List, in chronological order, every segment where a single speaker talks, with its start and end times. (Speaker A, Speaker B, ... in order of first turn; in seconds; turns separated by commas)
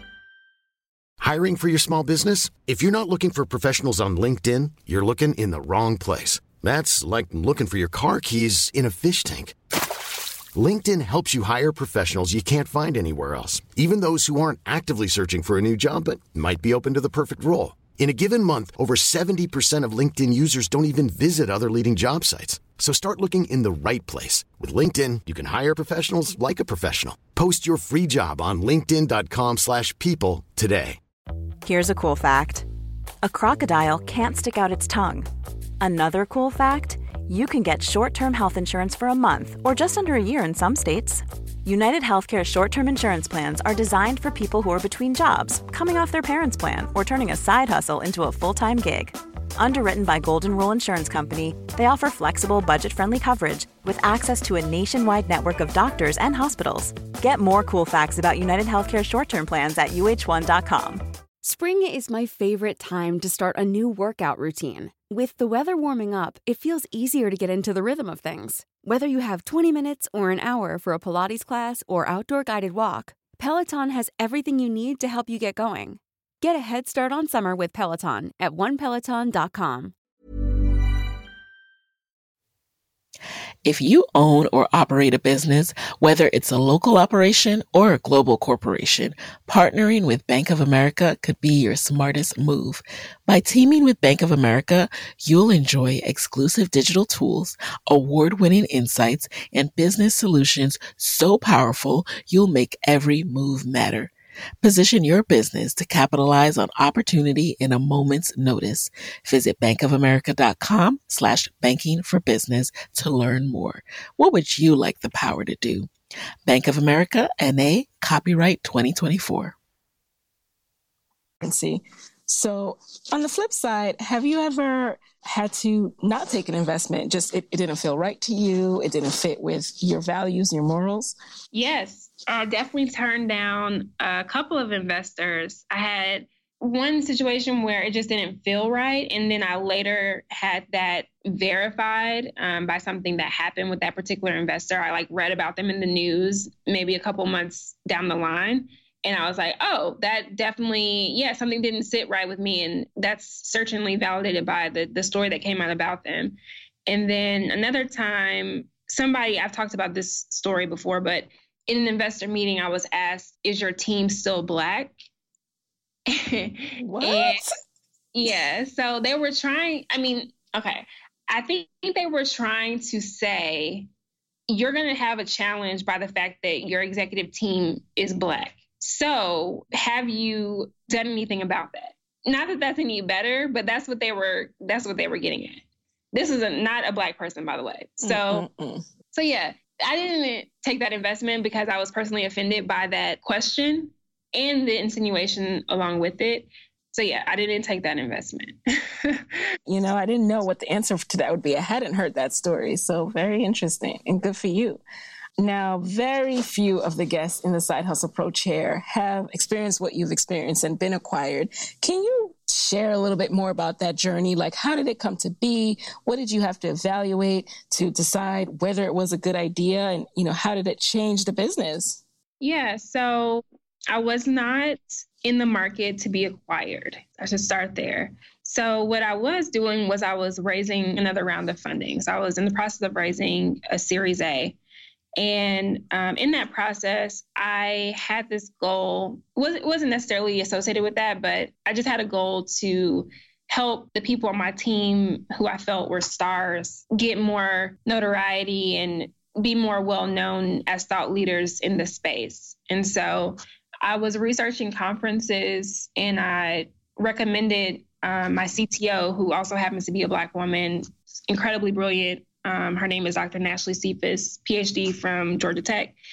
Speaker A: 1.2-9.6, Speaker A: 10.6-31.0, Speaker B: 31.6-32.6, Speaker B: 33.2-35.3, Speaker B: 35.8-61.0, Speaker C: 61.4-79.9, Speaker D: 83.6-115.9, Speaker D: 116.5-119.5, Speaker E: 121.4-131.1, Speaker F: 131.5-164.9, Speaker F: 166.1-167.4, Speaker E: 166.9-167.4, Speaker F: 168.1-173.9, Speaker F: 174.5-185.6, Speaker F: 186.1-188.5, Speaker E: 188.0-188.8, Speaker F: 189.1-199.4, Speaker E: 199.7-204.8, Speaker E: 205.4-222.0, Speaker F: 222.4-234.6, Speaker F: 235.2-265.9